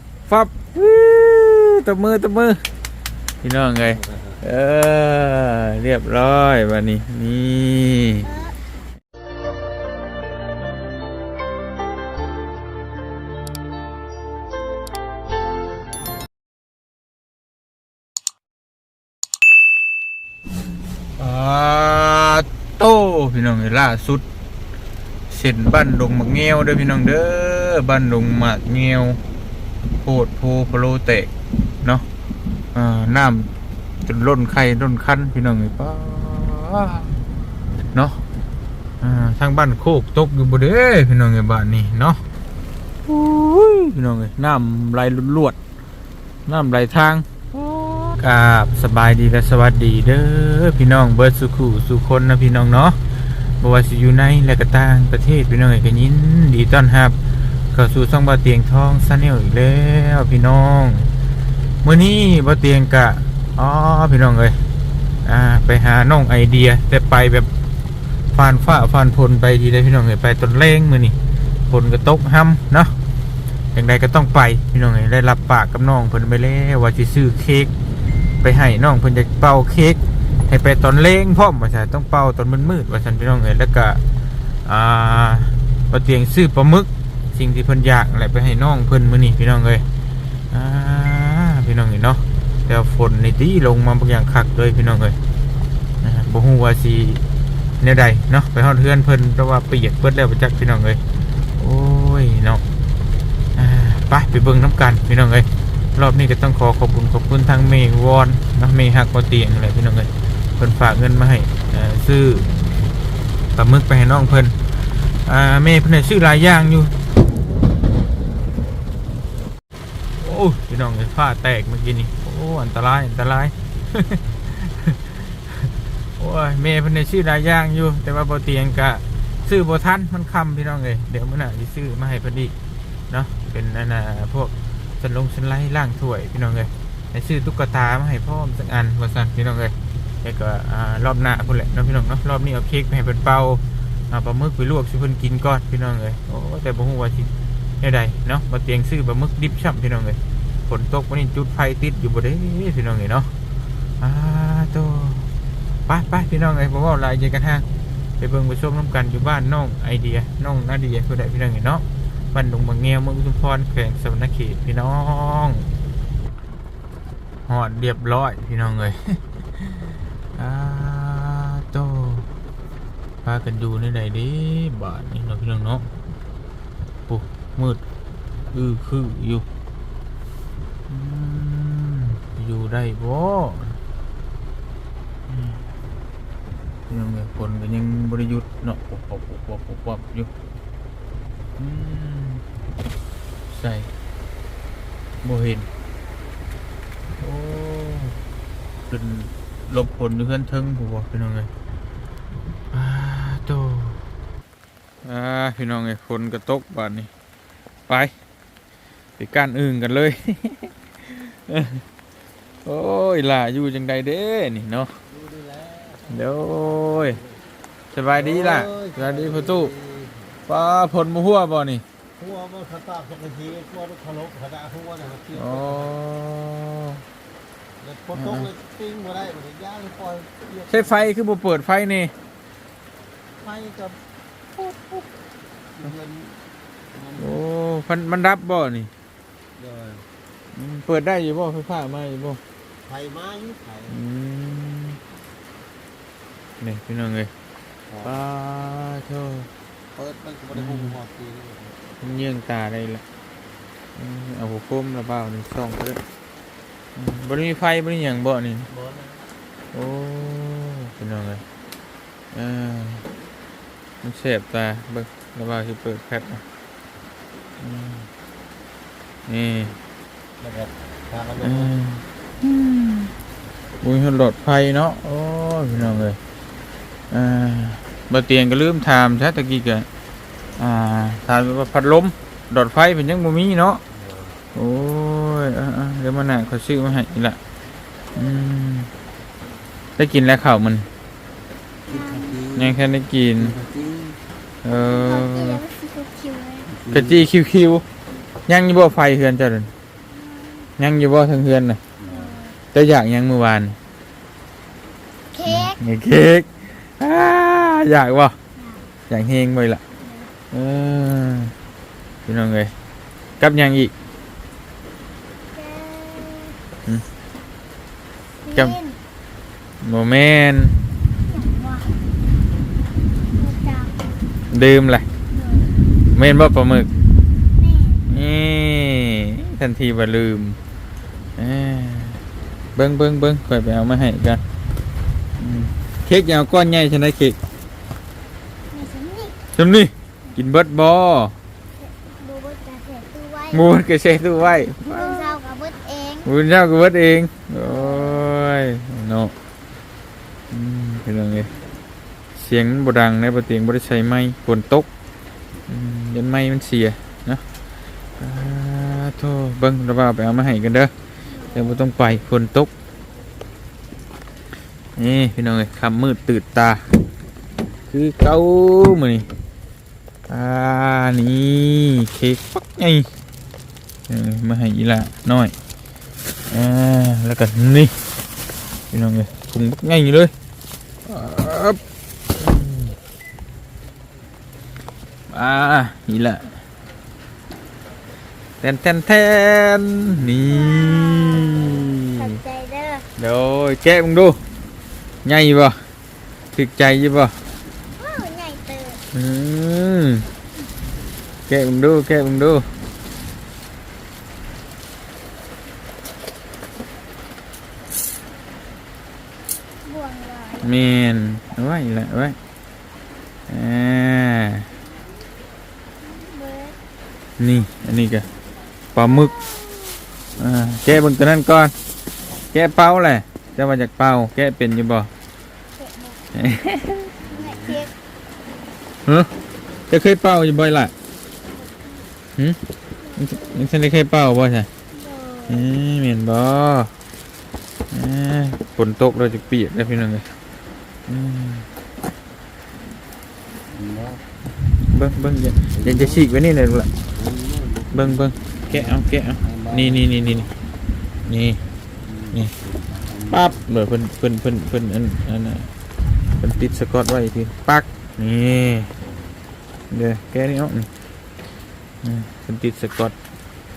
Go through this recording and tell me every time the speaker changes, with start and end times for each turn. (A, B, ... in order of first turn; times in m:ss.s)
0:00.3-0:02.6 A
0:03.4-0:08.3 A
0:03.8-0:04.4 B
0:08.2-0:08.6 C
0:21.2-0:24.2 A
0:25.3-0:29.2 A
0:29.9-0:31.3 A
0:32.7-0:33.5 A
0:34.0-0:37.1 A
0:37.9-0:38.2 A
0:39.0-0:42.2 A
0:43.0-0:45.6 A
0:46.4-0:53.0 A
0:53.6-0:57.2 A
0:57.7-1:01.1 A
1:01.8-1:04.6 A
1:05.2-1:07.5 A
1:08.3-1:11.2 A
1:11.7-1:12.9 A
1:13.7-1:17.7 A
1:18.4-1:24.0 A
1:24.6-1:29.8 A
1:30.5-1:35.2 A
1:36.0-1:37.2 A
1:37.8-1:41.0 A
1:41.6-1:42.6 A
1:43.6-1:52.5 A
1:53.5-1:54.6 A
1:55.1-1:56.9 A
2:00.2-2:12.5 A
2:13.1-2:33.3 A
2:34.0-2:35.3 A
2:35.9-2:37.6 A
2:38.2-2:45.7 A
2:47.5-2:49.8 A
2:50.3-2:52.3 A
2:53.2-2:55.9 A
2:57.1-2:57.8 A
2:58.5-2:59.4 A
3:00.9-3:03.8 A
3:05.3-3:05.6 A
3:06.9-3:10.3 A
3:11.6-3:12.4 A
3:13.5-3:13.9 A
3:15.2-3:15.7 A
3:17.2-3:18.2 A
3:18.9-3:21.5 A
3:22.7-3:24.0 A
3:25.0-3:27.1 A
3:27.9-3:28.1 A
3:29.2-3:31.8 A
3:32.6-3:34.9 A
3:35.0-3:37.4 B
3:36.1-3:37.2 A
3:37.9-3:39.7 A
3:38.1-3:40.4 B
3:40.5-3:41.8 A
3:42.2-3:45.9 B
3:45.3-3:47.0 A
3:47.8-3:51.1 B
3:48.1-3:48.5 A
3:50.7-3:52.1 A
3:53.4-3:54.0 B
3:54.6-3:55.0 A
3:55.7-3:57.4 B
3:57.2-3:58.9 A
3:59.6-4:00.1 B
4:00.5-4:02.4 A
4:02.8-4:04.0 B
4:03.9-4:05.0 A
4:06.6-4:07.3 A
4:07.9-4:08.2 B
4:08.0-4:09.5 A
4:09.9-4:11.8 B
4:10.5-4:10.9 A
4:12.0-4:13.0 A
4:14.0-4:16.0 A
4:16.9-4:18.7 A
4:18.7-4:19.3 B
4:19.7-4:21.4 A
4:22.3-4:23.1 A
4:24.0-4:26.4 A
4:27.6-4:28.1 A
4:29.3-4:29.8 A
4:30.4-4:31.8 B
4:31.4-4:33.1 A
4:33.8-4:36.2 A
4:35.7-4:36.0 B
4:37.1-4:39.9 A
4:40.6-4:43.8 A
4:43.9-4:44.4 B
4:44.5-4:47.4 A
4:48.1-4:48.9 A
4:50.0-4:50.9 A
4:51.8-4:52.4 C
4:51.9-4:52.8 B
4:52.6-4:53.5 A
4:53.4-4:54.2 B
4:54.6-4:55.6 A
4:54.7-4:56.7 C
4:56.7-4:57.3 B
4:56.9-4:57.8 A
4:58.5-4:59.7 A
5:00.0-5:00.7 C
5:00.8-5:01.8 A
5:02.0-5:02.4 B
5:02.0-5:02.6 C
5:02.7-5:03.8 A
5:05.3-5:05.8 C
5:05.4-5:06.5 A
5:07.0-5:08.4 A
5:08.5-5:08.9 C
5:09.1-5:09.8 A
5:10.0-5:10.3 C
5:10.5-5:11.5 A
5:12.2-5:12.7 A
5:13.4-5:13.9 A
5:15.5-5:16.6 C
5:18.4-5:19.0 C
5:19.8-5:20.8 A
5:21.2-5:21.9 C
5:23.3-5:24.0 C
5:24.5-5:25.0 A
5:25.3-5:25.8 C
5:26.1-5:26.9 A
5:27.5-5:28.1 C
5:28.1-5:30.6 A
5:31.4-5:32.2 A
5:32.8-5:34.4 A
5:35.4-5:37.4 A
5:38.7-5:39.4 C
5:39.5-5:41.3 A
5:41.8-5:43.7 C
5:43.5-5:45.4 A
5:44.9-5:46.3 C
5:46.2-5:49.3 A
5:47.6-5:48.3 C
5:50.5-5:51.5 A
5:52.3-5:54.9 A
5:55.7-5:57.4 A
5:58.2-6:00.9 A
6:01.2-6:01.8 C
6:01.5-6:02.7 A
6:05.0-6:07.0 A
6:07.9-6:09.3 A
6:10.3-6:13.1 A
6:14.1-6:15.5 A
6:16.5-6:18.0 A
6:18.9-6:20.3 A
6:21.0-6:21.8 A
6:22.4-6:22.9 A
6:25.3-6:26.6 A
6:28.6-6:32.4 A
6:30.1-6:30.6 B
6:30.5-6:33.1 C
6:31.5-6:32.0 B
6:33.2-6:34.4 A
6:35.2-6:35.8 A
6:36.5-6:37.4 A
6:37.9-6:39.0 C
6:39.1-6:40.3 A
6:41.5-6:42.7 A
6:49.8-6:50.8 C
6:50.6-6:52.4 A
6:53.5-6:54.7 A
6:56.0-6:56.8 C
6:57.4-6:58.3 A
6:58.9-6:59.3 A
6:59.0-7:00.0 C
7:00.4-7:00.7 B
7:00.4-7:01.7 A
7:02.5-7:05.1 A
7:05.7-7:06.5 C
7:06.3-7:07.1 A
7:07.1-7:07.9 C
7:07.2-7:07.9 B
7:09.9-7:10.9 A
7:11.5-7:12.1 C
7:13.0-7:13.7 C
7:13.2-7:14.7 A
7:14.9-7:15.7 C
7:15.5-7:16.9 A
7:17.9-7:20.3 A
7:21.1-7:21.7 A
7:23.7-7:24.2 B
7:24.8-7:26.9 A
7:25.7-7:26.3 B
7:27.0-7:30.5 B
7:27.9-7:30.5 A
7:31.2-7:31.6 A
7:32.0-7:33.6 B
7:33.3-7:35.7 A
7:36.4-7:38.9 A
7:39.1-7:39.3 B
7:39.9-7:40.9 A
7:42.0-7:43.1 A